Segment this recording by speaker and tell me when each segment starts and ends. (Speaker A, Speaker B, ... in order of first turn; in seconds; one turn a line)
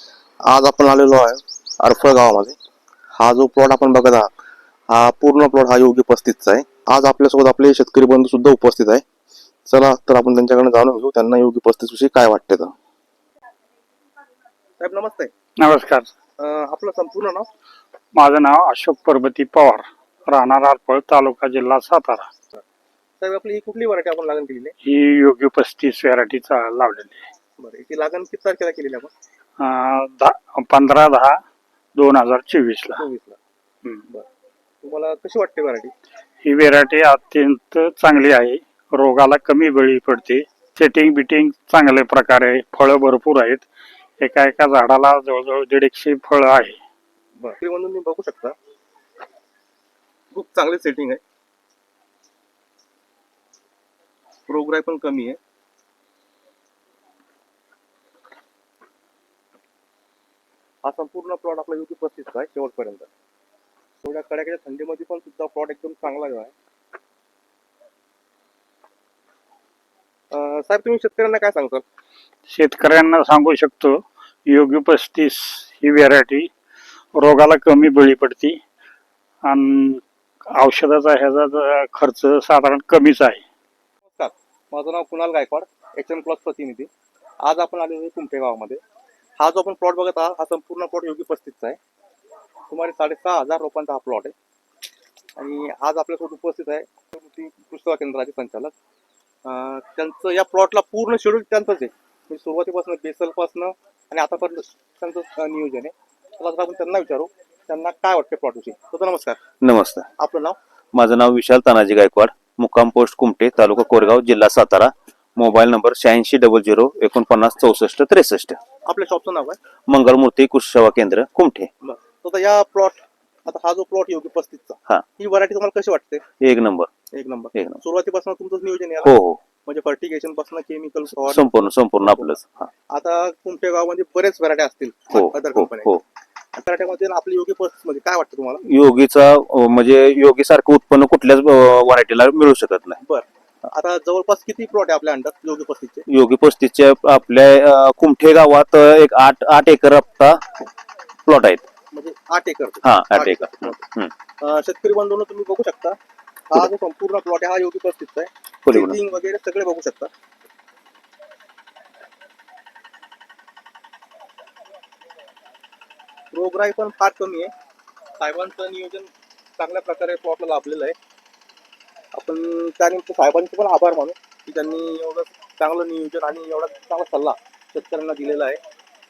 Speaker A: 0.5-2.6
Speaker A: 3.2-4.3
Speaker A: 4.9-9.1
Speaker A: 9.7-12.7
Speaker A: 14.8-15.3
Speaker B: 15.6-16.1
Speaker A: 16.4-17.5
Speaker B: 18.1-22.3
Speaker A: 23.2-24.8
Speaker B: 24.8-27.2
Speaker A: 27.6-29.1
Speaker B: 29.6-31.4
Speaker B: 31.9-33.0
Speaker A: 33.0-33.4
Speaker A: 34.8-35.9
Speaker B: 36.4-43.7
Speaker B: 44.2-46.8
Speaker A: 47.4-48.6
Speaker A: 50.3-51.2
Speaker A: 54.5-55.4
Speaker A: 60.8-63.1
Speaker A: 64.0-66.5
Speaker A: 70.3-71.8
Speaker B: 72.5-76.5
Speaker B: 77.1-78.6
Speaker B: 79.4-83.4
Speaker A: 84.1-86.9
Speaker A: 87.4-88.8
Speaker A: 89.4-91.8
Speaker A: 92.7-94.3
Speaker A: 95.4-98.7
Speaker A: 99.5-109.4
Speaker C: 109.6-110.1
Speaker A: 110.2-110.6
Speaker C: 110.9-118.6
Speaker A: 118.9-119.6
Speaker C: 119.9-121.7
Speaker A: 121.8-126.2
Speaker C: 126.4-126.9
Speaker A: 127.1-129.1
Speaker C: 127.5-127.8
Speaker C: 129.0-129.4
Speaker A: 129.7-132.4
Speaker C: 131.2-132.7
Speaker A: 132.9-135.9
Speaker C: 135.1-136.0
Speaker A: 136.6-138.7
Speaker C: 138.6-143.0
Speaker A: 143.0-146.1
Speaker C: 146.1-150.4
Speaker C: 151.3-151.6
Speaker A: 151.9-153.8
Speaker C: 152.8-154.1
Speaker A: 154.4-156.0
Speaker A: 156.5-160.1
Speaker C: 158.7-159.0
Speaker A: 166.3-167.5
Speaker A: 168.2-171.0
Speaker A: 172.1-178.6